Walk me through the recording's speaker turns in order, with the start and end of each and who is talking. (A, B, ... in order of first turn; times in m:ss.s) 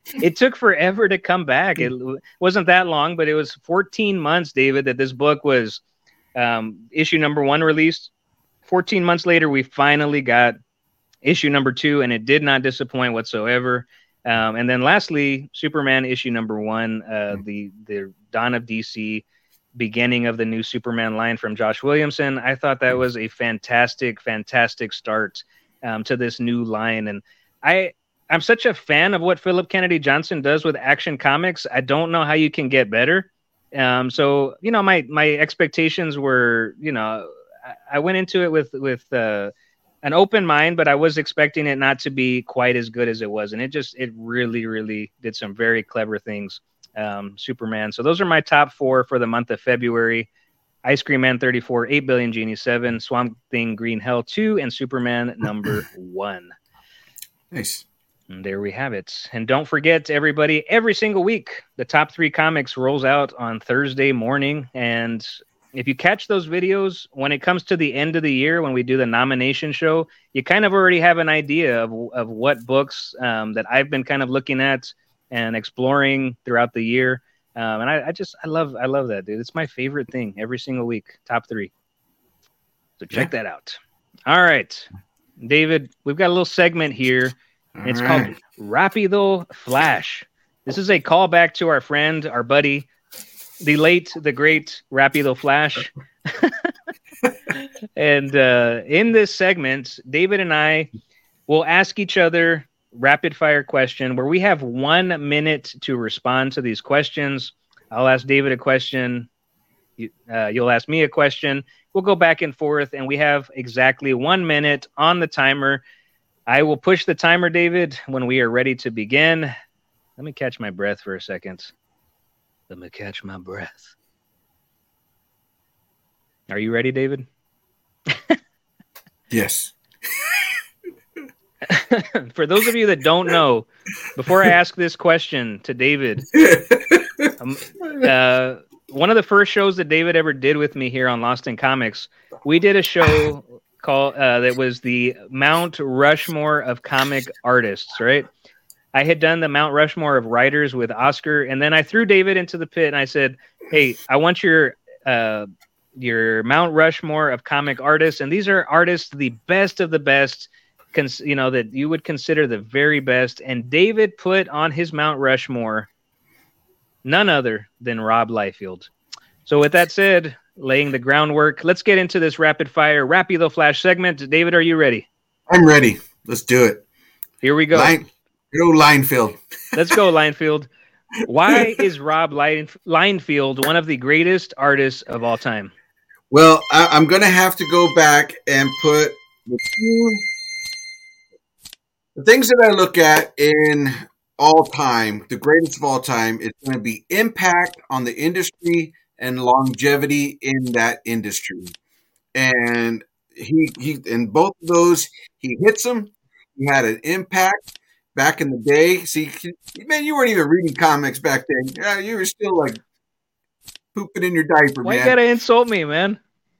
0:00.2-0:05.8 A
0:06.3-0:08.1 A
0:08.6-0:10.6 A
0:11.2-0:19.2 A
0:19.8-0:37.3 A
0:37.9-0:39.5 A
0:40.0-0:50.3 A
0:50.8-0:56.5 A
0:57.5-0:57.8 B
0:58.3-1:21.7 A
1:23.0-1:24.9 A
1:25.4-1:32.9 A
1:27.8-1:28.3 B
1:33.6-1:36.6 A
1:37.6-1:40.9 A
1:41.5-1:49.3 A
1:50.0-1:55.8 A
1:56.5-1:59.5 A
2:00.2-2:01.7 A
2:02.7-2:03.9 A
2:06.5-2:07.3 A
2:08.1-2:08.4 A
2:09.3-2:10.5 B
2:11.6-2:16.3 A
2:16.3-2:17.3 B
2:17.4-2:28.3 A
2:17.8-2:18.1 B
2:28.9-2:45.9 A
2:47.0-2:48.9 A
2:49.4-2:55.1 A
2:55.5-2:56.8 B
2:57.4-2:58.0 A
2:57.7-3:00.0 B
2:59.7-3:00.7 A
3:01.2-3:05.7 A
3:01.5-3:01.8 B
3:06.3-3:10.2 B
3:12.1-3:21.7 B
3:22.3-3:27.6 B
3:28.1-3:32.8 B
3:33.9-3:35.2 B
3:34.8-3:36.2 A